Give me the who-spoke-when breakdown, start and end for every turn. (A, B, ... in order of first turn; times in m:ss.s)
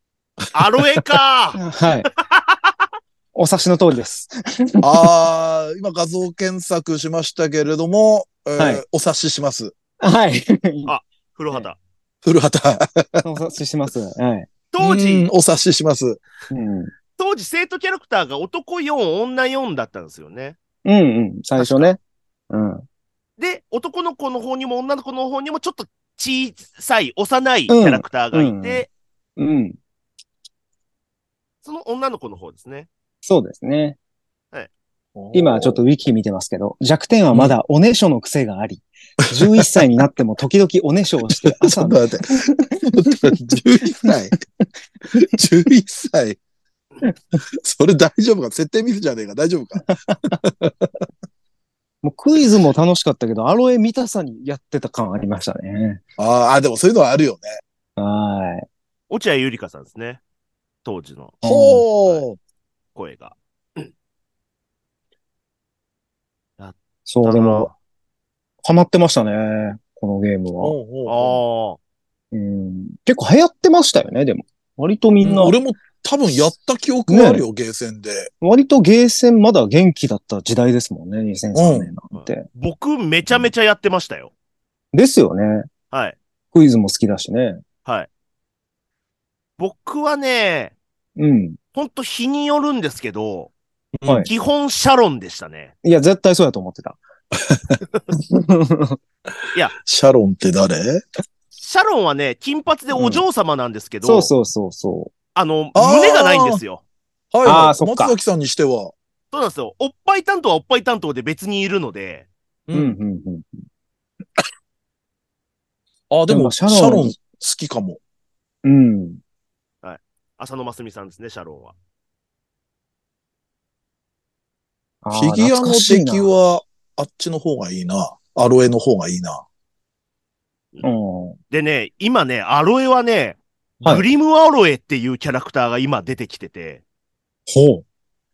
0:00.5-0:02.7 A
0:01.6-0:02.1 B
0:03.4-0:04.8 B
0:04.8-0:09.7 C
0:08.6-0:08.8 B
0:10.0-0:10.9 B
0:10.9-0:11.8 A
0:12.2-0:13.2 C
0:13.2-0:14.5 B
0:14.7-0:15.3 A
0:14.8-0:16.2 C
0:16.5-0:16.9 B
0:17.2-0:20.6 A
0:20.8-0:22.0 B
0:21.6-0:21.9 A
0:22.5-0:22.9 B
0:23.4-0:28.9 A
0:27.7-0:28.8 B
0:29.4-0:29.8 B
0:31.6-0:32.9 A
0:33.2-0:34.0 B
0:35.2-0:35.8 C
0:35.3-0:43.3 B
0:41.4-0:44.4 C
0:45.2-0:46.4 C
0:47.6-0:50.9 C
0:49.8-0:50.4 B
0:52.0-0:56.0 B
0:56.2-0:57.5 C
0:58.0-0:58.7 B
0:59.1-1:00.2 A
1:00.8-1:01.4 A
1:01.4-1:02.4 C
1:01.4-1:01.8 B
1:03.0-1:03.9 A
1:06.6-1:07.7 A
1:07.1-1:07.7 B
1:08.6-1:10.8 B
1:10.6-1:11.4 C
1:11.1-1:11.8 A
1:12.3-1:15.6 B
1:15.2-1:18.3 C
1:17.1-1:17.4 B
1:18.4-1:22.5 B
1:21.6-1:21.9 C
1:22.1-1:24.3 A
1:24.9-1:25.7 B
1:25.9-1:26.2 A
1:26.5-1:27.6 B
1:29.6-1:30.8 A
1:31.2-1:31.6 B
1:31.8-1:33.5 A
1:34.0-1:34.3 C
1:34.3-1:35.7 A
1:35.8-1:37.0 B
1:37.5-1:37.8 C
1:38.3-1:39.0 B
1:39.8-1:41.0 C
1:41.6-1:44.3 A
1:42.9-1:43.2 B
1:44.0-1:45.1 B
1:45.4-1:46.8 A
1:45.8-1:46.6 C
1:47.3-1:48.9 C
1:47.4-1:48.2 B
1:49.3-1:52.3 A
1:52.7-1:53.0 C
1:52.7-1:53.6 B
1:56.1-1:58.0 C
1:56.3-1:57.2 B
1:58.6-1:59.2 B
1:59.8-2:01.8 A
2:05.0-2:06.4 B
2:05.1-2:09.4 C
2:10.8-2:11.4 B
2:11.5-2:16.8 A
2:17.5-2:17.8 B